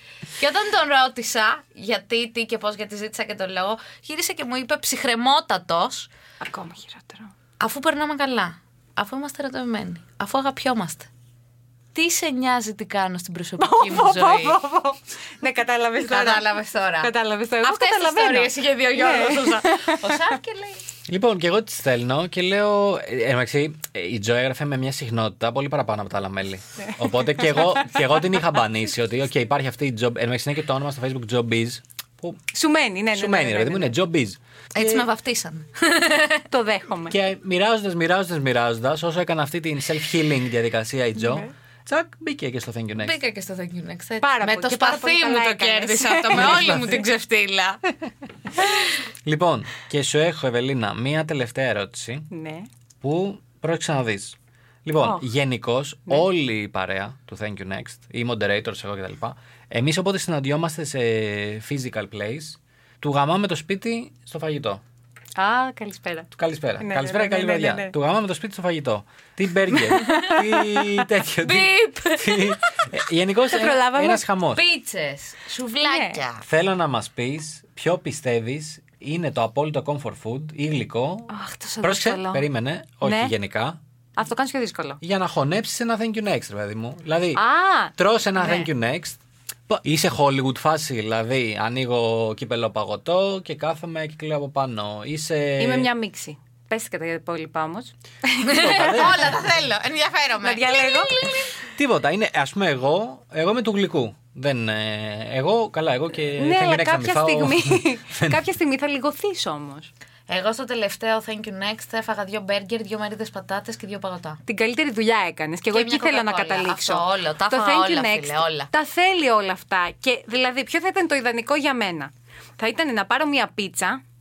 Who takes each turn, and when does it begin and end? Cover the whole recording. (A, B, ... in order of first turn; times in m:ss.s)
0:00.4-0:06.1 A
0:06.4-0:07.3 B
0:07.6-0:11.1 A
0:11.9-0:14.6 A
0:13.6-0:16.5 B
0:16.1-0:20.8 A
0:17.0-0:20.2 B
0:21.1-0:32.4 C
0:32.5-0:33.9 B
0:33.1-0:35.0 C
0:34.7-0:36.4 A
0:36.5-0:37.2 B
0:37.1-0:43.2 C
0:41.2-0:41.5 B
0:43.0-0:47.8 A
0:44.2-0:47.0 B
0:46.4-0:46.8 C
0:49.2-0:52.3 C
0:52.3-0:52.7 B
0:53.0-1:04.8 C
0:55.0-0:55.2 B
1:05.4-1:06.3 B
1:06.3-1:14.6 C
1:06.8-1:07.9 B
1:09.7-1:10.4 B
1:11.4-1:12.6 A
1:13.5-1:14.2 B
1:14.5-1:16.4 A
1:15.8-1:16.2 B
1:16.4-1:21.3 C
1:21.3-1:22.4 B
1:21.8-1:23.8 C
1:23.0-1:23.3 B
1:24.2-1:25.0 B
1:25.0-1:27.4 C
1:27.3-1:28.7 B
1:28.0-1:29.2 C
1:29.7-1:35.9 C
1:35.6-1:39.1 B
1:38.4-1:39.4 C
1:38.4-1:41.6 A
1:40.4-1:41.3 B
1:41.7-1:48.4 C
1:46.4-1:49.9 B
1:50.3-1:54.4 A
1:54.4-2:04.0 B
1:55.7-1:58.7 A